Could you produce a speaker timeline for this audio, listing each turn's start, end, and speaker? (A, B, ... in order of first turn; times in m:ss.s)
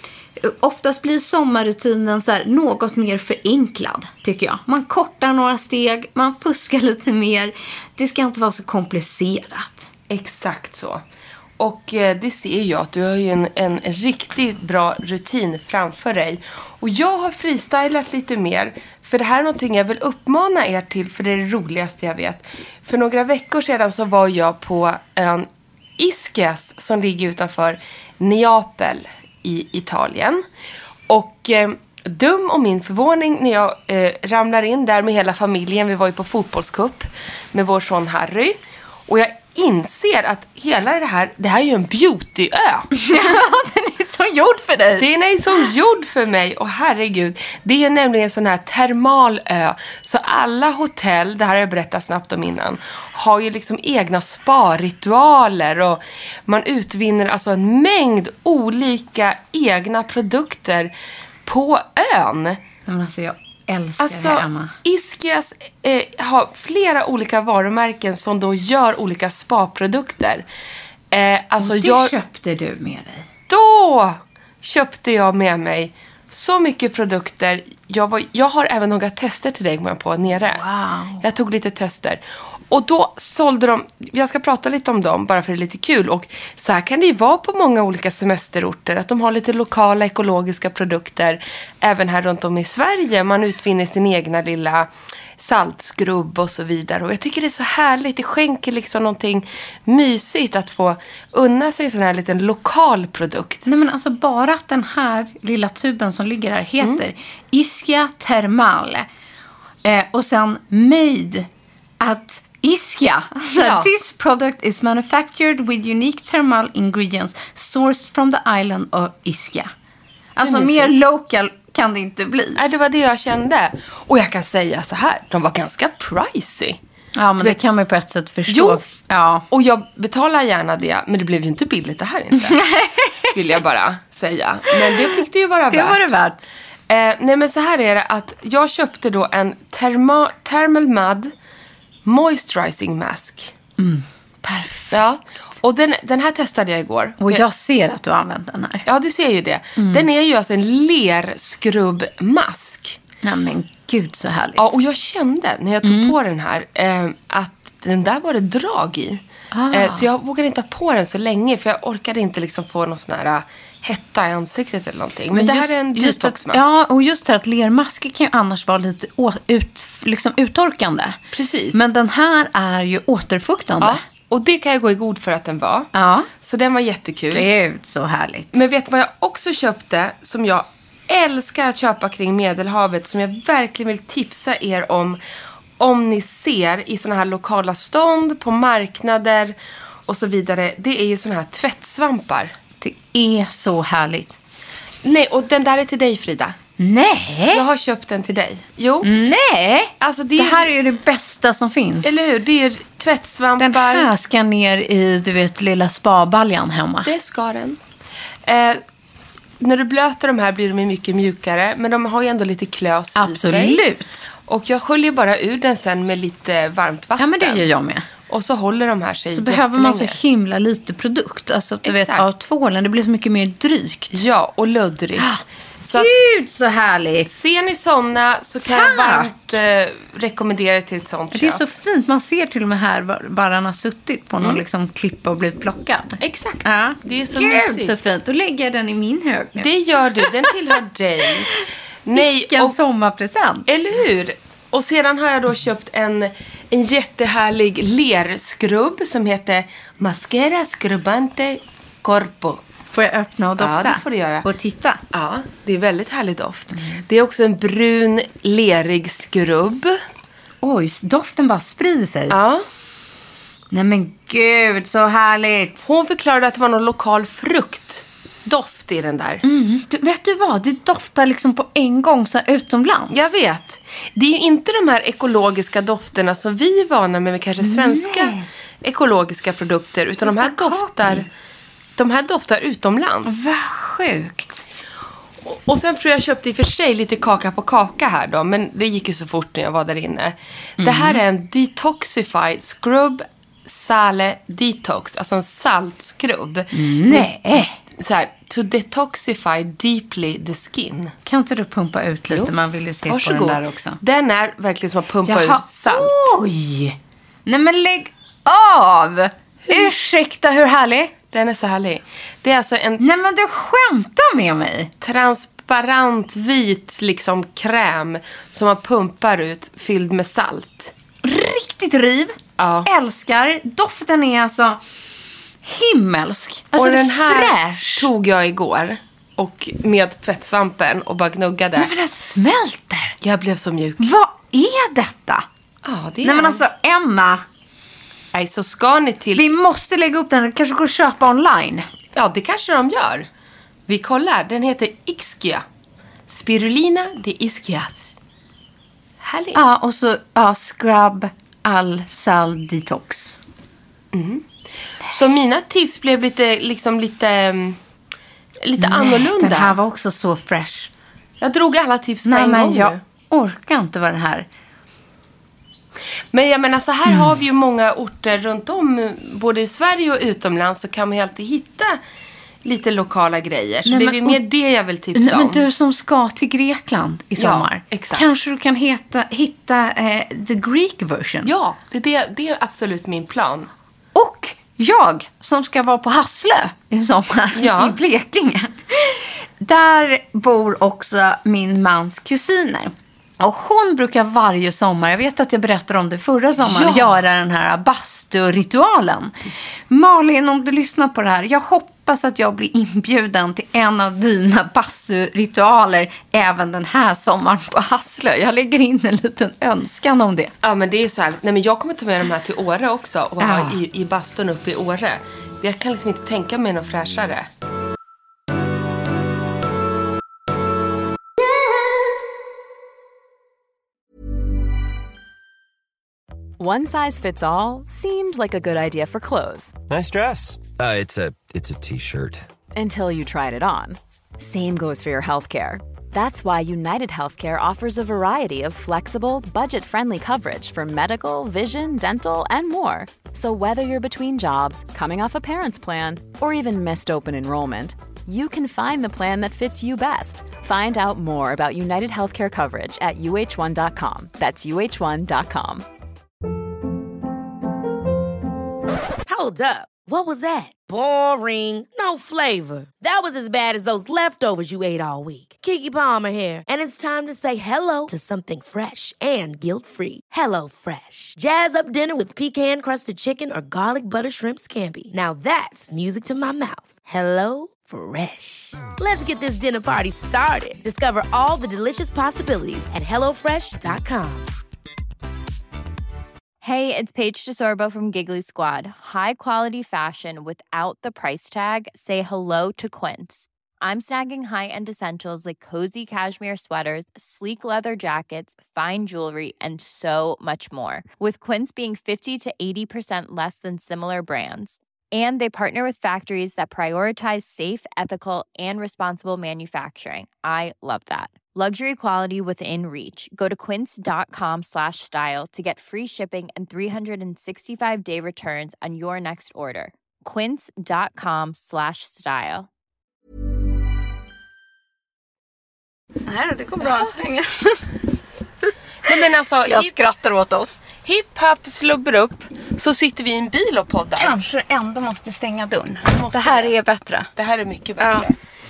0:00.4-0:09.9 A
0:10.1-0:11.0 B
0:11.6-0:30.4 B
0:31.1-0:42.9 B
0:43.0-0:45.1 A
0:45.0-1:00.9 B
1:01.5-1:02.6 B
1:02.9-1:04.7 A
1:04.0-1:10.4 B
1:11.1-1:12.1 B
1:11.6-1:13.3 A
1:13.5-1:20.6 B
1:20.5-1:21.2 A
1:21.2-1:34.9 B
1:35.4-1:43.6 B
1:43.7-1:49.1 A
1:49.8-1:51.5 A
1:52.0-1:59.7 A
1:53.6-1:53.9 B
2:00.4-2:02.6 A
2:00.4-2:00.9 B
2:02.6-2:06.8 B
2:07.2-2:09.4 A
2:08.5-2:08.8 B
2:09.5-2:12.6 B
2:12.4-2:13.3 A
2:13.3-2:16.2 B
2:14.7-2:15.2 A
2:15.7-2:16.4 A
2:16.9-2:21.3 B
2:22.0-2:23.5 B
2:23.8-2:25.0 A
2:24.9-2:27.4 B
2:27.2-2:28.8 A
2:28.9-2:33.0 B
2:29.8-2:30.1 A
2:33.2-2:34.7 A
2:34.6-2:46.7 B
2:35.8-2:36.2 A
2:39.5-2:40.1 A
2:45.3-2:51.2 A
2:51.3-2:51.9 B
2:51.7-2:54.0 A
2:53.8-2:55.9 B
2:55.9-2:56.3 A
2:56.4-2:57.5 B
2:57.3-2:58.5 A
2:58.5-3:05.2 B
3:05.8-3:09.6 B
3:10.1-3:12.5 B
3:12.8-3:14.4 A
3:15.0-3:16.6 B
3:16.8-3:17.6 A
3:17.5-3:19.1 B
3:19.0-3:22.2 A
3:20.0-3:20.7 B
3:22.0-3:24.1 B
3:23.6-3:27.1 A
3:27.0-3:27.8 B
3:28.5-3:28.8 B
3:29.6-3:33.8 B
3:33.2-3:34.3 A
3:34.4-3:37.7 B
3:37.2-3:38.1 A
3:38.3-3:40.2 B
3:39.3-3:44.2 A
3:41.8-3:42.3 B
3:44.1-3:46.1 B
3:45.2-3:47.3 A
3:47.3-3:51.6 B
3:48.6-3:49.5 A
3:51.3-4:00.5 A
3:56.2-3:58.0 B
3:59.6-4:02.8 B
4:02.2-4:03.7 A
4:03.7-4:12.6 B
4:12.9-4:15.0 A
4:13.6-4:14.5 B
4:15.1-4:20.0 B
4:20.6-4:22.4 A
4:22.3-4:22.6 B
4:23.7-4:25.8 A
4:25.8-4:29.4 B
4:29.4-4:33.3 A
4:33.1-4:41.3 B
4:37.6-4:38.5 A
4:40.3-4:41.3 A
4:42.0-4:43.5 B
4:43.3-4:44.6 A
4:45.4-5:01.1 B
4:50.8-4:51.2 A
4:56.7-4:57.8 A
5:01.3-5:04.0 A
5:03.1-5:06.4 B
5:05.3-5:11.1 A
5:11.3-5:13.0 B
5:13.0-5:14.9 A
5:15.0-5:20.9 B
5:21.2-5:24.8 A
5:22.6-5:22.9 B
5:25.6-5:28.1 A
5:26.8-5:31.9 B
5:31.8-5:33.2 A
5:33.2-5:34.1 B
5:34.0-5:35.5 A
5:35.8-5:36.6 B
5:36.2-5:37.4 A
5:38.3-5:39.4 B
5:39.4-5:41.9 A
5:42.2-5:43.3 B
5:43.9-5:45.6 B
5:46.3-5:48.2 B
5:49.2-5:49.6 B
5:49.5-5:53.4 A
5:54.1-5:54.5 B
5:55.0-5:57.8 B
5:58.6-5:59.8 B
5:58.8-6:00.9 A
6:01.4-6:03.0 B
6:02.3-6:04.5 A
6:06.3-6:12.0 B
6:12.6-6:15.6 B
6:13.9-6:14.4 A
6:15.2-6:21.5 A
6:17.4-6:18.3 B
6:21.4-6:23.7 B
6:24.2-6:39.3 A
6:27.6-6:28.0 B
6:36.6-6:37.2 B
6:39.9-6:50.5 A
6:50.6-6:57.5 B
6:53.4-6:53.8 A
7:06.6-7:09.8 C
7:09.9-7:12.5 D
7:12.8-7:35.9 C
7:39.3-8:04.5 E
8:06.6-8:42.7 F
8:46.3-8:48.0 A
8:49.1-8:50.0 B
8:49.1-8:50.8 A
8:51.0-8:54.4 B
8:54.2-8:57.3 A
8:56.1-8:56.7 B
8:57.4-8:58.4 B
8:58.0-8:58.3 A